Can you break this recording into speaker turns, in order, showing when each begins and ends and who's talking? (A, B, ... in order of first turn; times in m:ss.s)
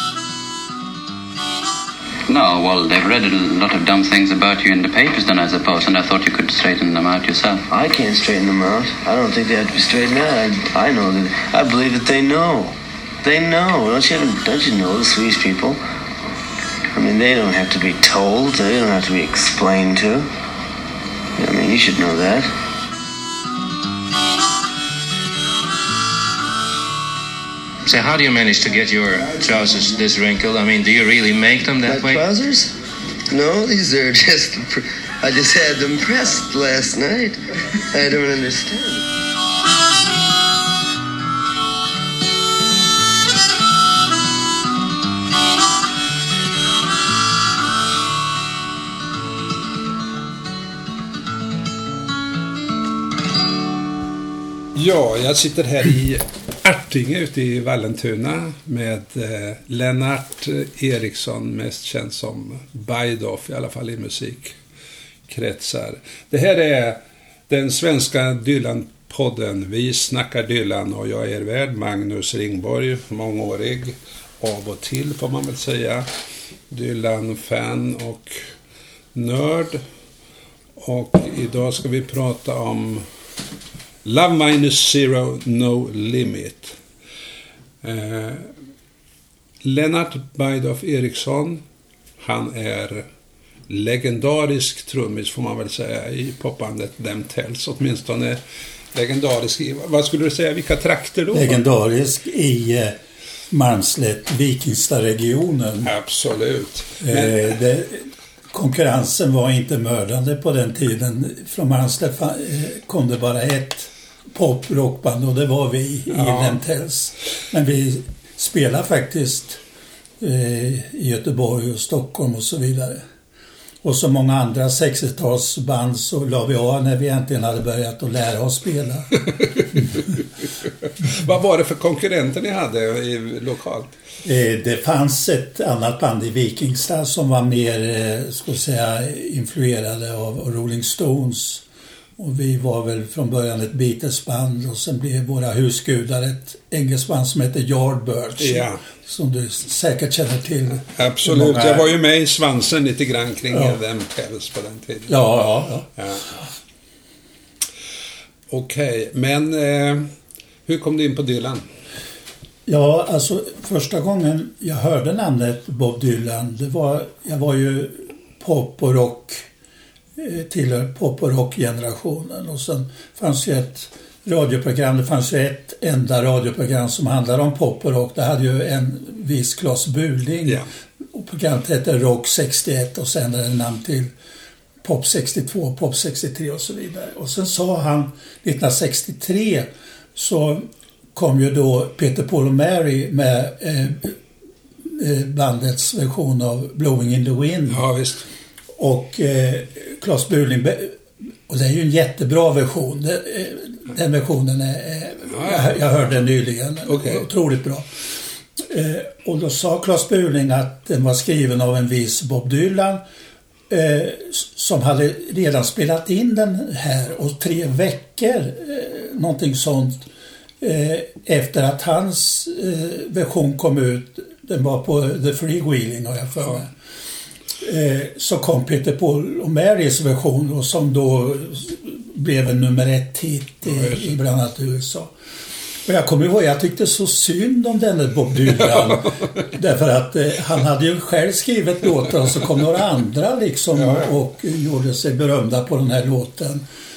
0:02.3-0:07.6 A
0:07.7-0:15.8 B
0:16.9-0:20.3 B
0:21.4-0:22.5 B
0:27.8-0:32.2 C
0:31.8-0:32.7 B
0:33.3-0:37.4 B
0:37.9-0:39.0 B
0:54.7-1:04.6 D
1:05.3-1:16.1 D
1:16.7-1:18.4 D
1:19.1-1:19.8 D
1:20.8-1:23.1 D
1:24.0-1:26.8 D
1:27.8-1:28.5 D
1:29.6-1:31.6 D
1:32.2-1:33.1 D
1:33.7-1:38.4 D
1:38.9-1:41.6 D
1:41.3-1:43.0 E
1:43.5-1:45.9 E
1:45.8-1:47.5 D
1:47.0-1:59.6 E
1:56.1-1:56.6 D
2:00.2-2:03.0 E
2:03.8-2:09.2 E
2:11.0-2:13.9 D
2:14.2-2:21.6 E
2:22.2-2:31.9 E
2:28.4-2:28.8 D
2:30.8-2:35.2 D
2:35.1-2:35.9 E
2:36.0-2:36.2 D
2:38.5-2:40.1 D
2:40.6-2:41.6 D
2:42.7-2:49.5 E
2:50.2-3:00.6 E
3:01.1-3:04.1 E
3:04.8-3:14.2 E
3:14.8-3:17.8 E
3:17.7-3:18.2 D
3:18.8-3:27.8 E
3:25.3-3:26.2 D
3:26.9-3:27.2 D
3:28.6-3:33.0 E
3:33.7-3:40.0 E
3:40.6-3:46.7 E
3:47.6-3:55.1 E
3:53.7-3:54.1 D
3:55.8-4:06.6 E
3:58.5-3:59.3 D
4:03.7-4:04.1 D